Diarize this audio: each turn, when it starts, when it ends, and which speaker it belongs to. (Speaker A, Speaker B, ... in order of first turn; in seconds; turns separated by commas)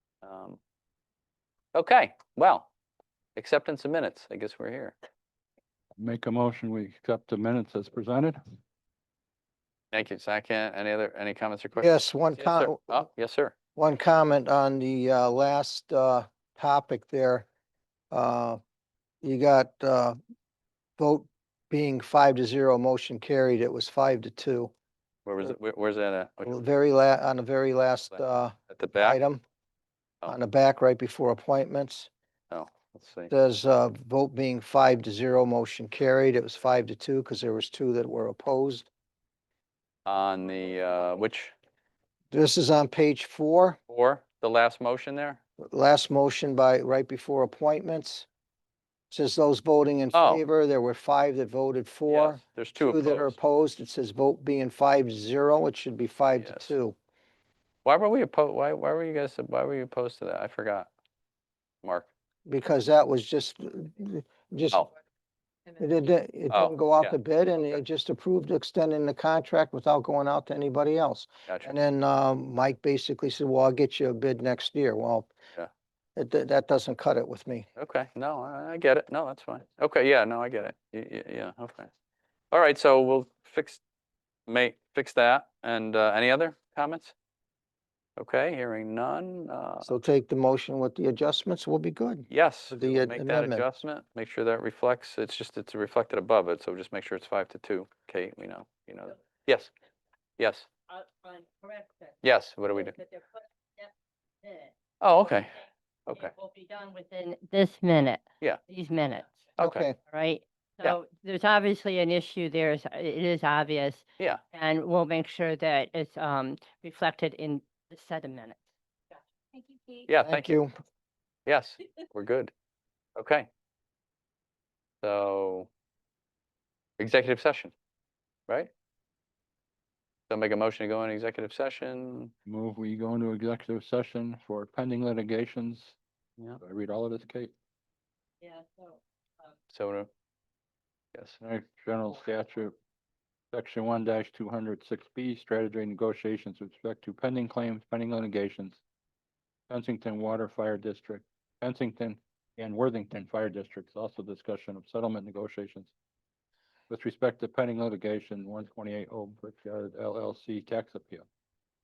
Speaker A: 0.2-0.6, Speaker A: 1.7-2.7, Speaker A: 3.4-4.9, Speaker B: 6.0-8.4, Speaker A: 9.9-13.5, Speaker C: 11.8-13.1, Speaker C: 13.8-17.5, Speaker C: 18.1-18.6, Speaker C: 19.2-20.2, Speaker C: 21.0-24.7, Speaker A: 25.2-26.5, Speaker C: 26.4-29.4, Speaker A: 28.1-29.2, Speaker C: 30.2-32.1, Speaker A: 32.5-33.3, Speaker C: 33.3-38.9, Speaker A: 40.0-41.5, Speaker C: 42.3-43.8, Speaker A: 43.9-45.4, Speaker C: 45.6-48.3, Speaker C: 49.1-57.0, Speaker A: 50.1-50.4, Speaker A: 52.1-53.4, Speaker A: 56.4-56.7, Speaker A: 57.8-60.9, Speaker A: 61.8-62.1, Speaker C: 62.5-64.9, Speaker C: 65.8-75.3, Speaker A: 66.5-67.1, Speaker A: 71.5-71.7, Speaker C: 76.2-77.7, Speaker A: 77.8-81.9, Speaker A: 82.5-83.8, Speaker A: 84.5-87.1, Speaker A: 88.2-89.9, Speaker C: 89.8-93.6, Speaker A: 92.3-99.7, Speaker A: 100.4-100.7, Speaker D: 100.9-102.1, Speaker A: 102.2-103.0, Speaker D: 102.7-103.9, Speaker D: 104.4-104.7, Speaker A: 105.0-106.3, Speaker D: 106.1-109.3, Speaker A: 109.6-109.9, Speaker C: 109.6-110.0, Speaker D: 110.1-118.6, Speaker D: 119.5-120.1, Speaker A: 120.1-120.5, Speaker C: 120.2-120.7, Speaker A: 121.5-122.5, Speaker A: 123.2-123.5, Speaker A: 125.0-125.7, Speaker A: 127.0-127.7, Speaker A: 130.3-132.3, Speaker B: 132.4-135.9, Speaker B: 136.6-137.5, Speaker D: 138.4-139.0, Speaker A: 139.7-140.1, Speaker B: 141.4-142.7, Speaker B: 143.5-148.8, Speaker B: 149.7-155.9, Speaker B: 156.9-161.2